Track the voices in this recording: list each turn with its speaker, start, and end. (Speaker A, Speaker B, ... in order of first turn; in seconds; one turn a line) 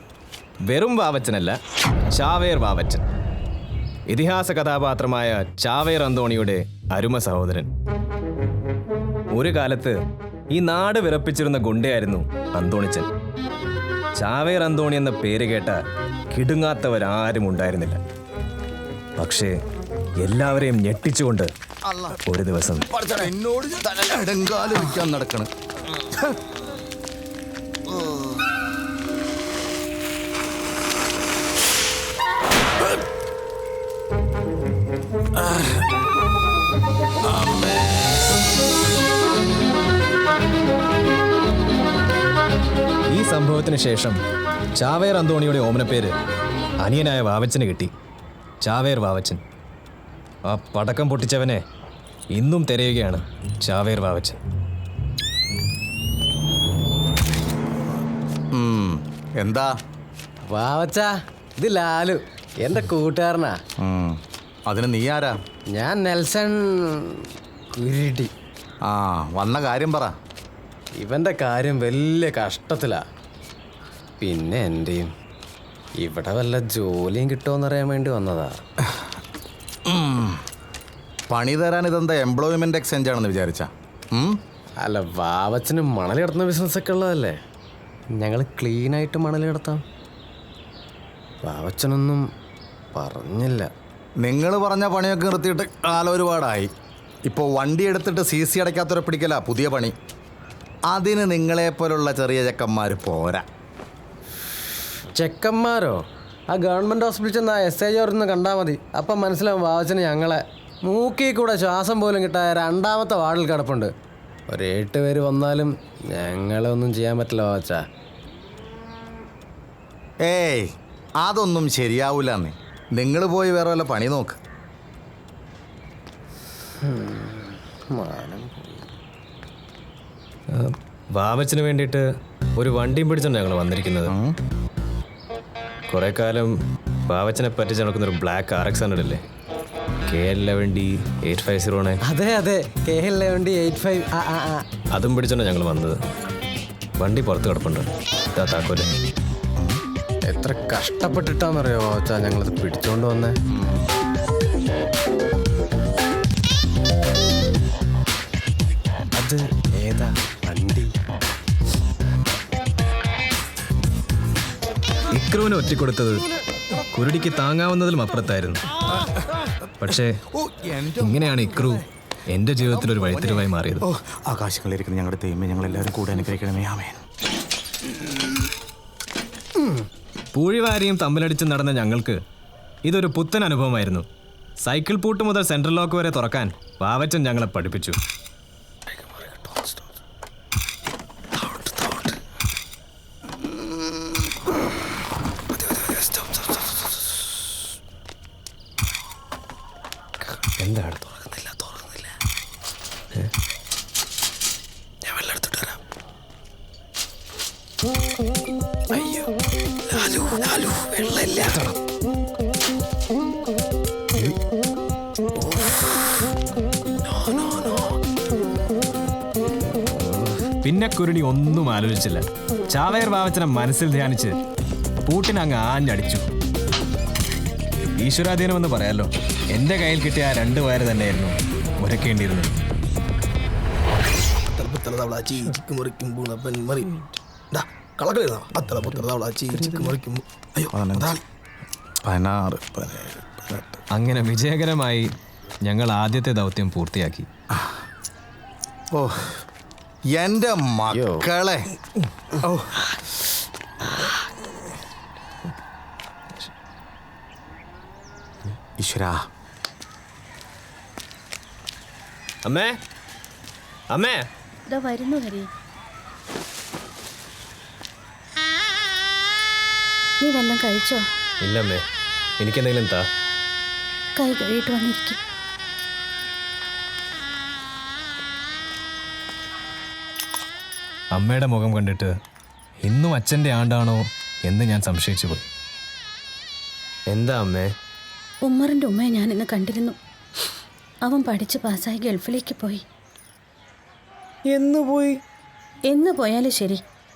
Speaker A: 0.7-1.6
Speaker A: 2.1-3.0
Speaker A: 4.1-7.7
Speaker A: 9.3-10.0
Speaker A: 10.5-13.1
Speaker A: 14.2-15.8
Speaker A: 16.3-18.0
Speaker A: 19.2-19.5
Speaker A: 20.2-21.5
Speaker B: 21.9-22.2
Speaker A: 22.2-22.9
Speaker B: 22.9-25.5
Speaker A: 43.1-44.2
Speaker A: 44.8-46.1
Speaker A: 46.8-47.9
Speaker A: 48.6-49.4
Speaker A: 50.5-51.6
Speaker A: 52.3-54.4
Speaker B: 58.5-59.7
Speaker C: 60.4-63.5
Speaker B: 63.8-65.3
Speaker C: 65.7-68.3
Speaker B: 68.9-70.1
Speaker C: 71.0-73.0
Speaker C: 74.2-75.1
Speaker C: 76.0-78.6
Speaker B: 79.9-80.4
Speaker B: 81.3-84.4
Speaker C: 84.8-87.3
Speaker C: 88.2-89.8
Speaker C: 91.4-92.2
Speaker C: 92.9-93.7
Speaker B: 94.2-96.7
Speaker B: 97.2-99.9
Speaker B: 100.9-103.4
Speaker C: 105.1-113.9
Speaker C: 114.5-117.8
Speaker B: 120.2-120.6
Speaker B: 121.2-124.4
Speaker C: 126.8-128.8
Speaker A: 130.5-132.0
Speaker A: 132.6-134.1
Speaker B: 134.1-134.3
Speaker A: 135.9-136.5
Speaker A: 137.1-139.2
Speaker A: 140.1-142.0
Speaker C: 142.1-144.6
Speaker A: 144.9-146.0
Speaker A: 147.0-148.9
Speaker C: 150.2-153.4
Speaker B: 153.5-153.9
Speaker C: 159.1-161.0
Speaker A: 165.1-166.2
Speaker A: 166.9-168.6
Speaker A: 169.8-170.1
Speaker B: 170.3-171.7
Speaker A: 171.0-173.8
Speaker B: 172.9-177.0
Speaker A: 180.3-182.2
Speaker A: 182.8-184.1
Speaker A: 184.6-188.0
Speaker C: 189.0-189.7
Speaker C: 191.6-192.1
Speaker C: 195.7-196.3
Speaker A: 200.2-201.2
Speaker C: 208.9-209.2
Speaker C: 209.9-211.7
Speaker C: 217.3-217.7
Speaker C: 220.0-220.3
Speaker A: 220.6-224.4
Speaker A: 225.1-226.2
Speaker A: 228.0-232.5
Speaker D: 234.5-236.9
Speaker D: 237.5-241.2
Speaker B: 240.7-241.2
Speaker B: 242.1-243.8
Speaker A: 243.9-245.1
Speaker A: 245.7-247.3
Speaker B: 248.9-249.4
Speaker B: 250.2-251.6
Speaker C: 250.9-251.2
Speaker B: 252.4-252.8
Speaker B: 258.8-259.2
Speaker A: 262.4-262.8
Speaker A: 263.9-264.2
Speaker E: 264.7-265.5
Speaker E: 270.2-271.0
Speaker A: 271.4-271.8
Speaker A: 272.4-273.1
Speaker E: 274.2-275.2
Speaker A: 281.1-282.1
Speaker A: 282.8-285.5
Speaker A: 287.1-287.7
Speaker E: 288.4-289.9
Speaker E: 291.1-292.8
Speaker A: 294.5-295.2
Speaker E: 295.9-296.8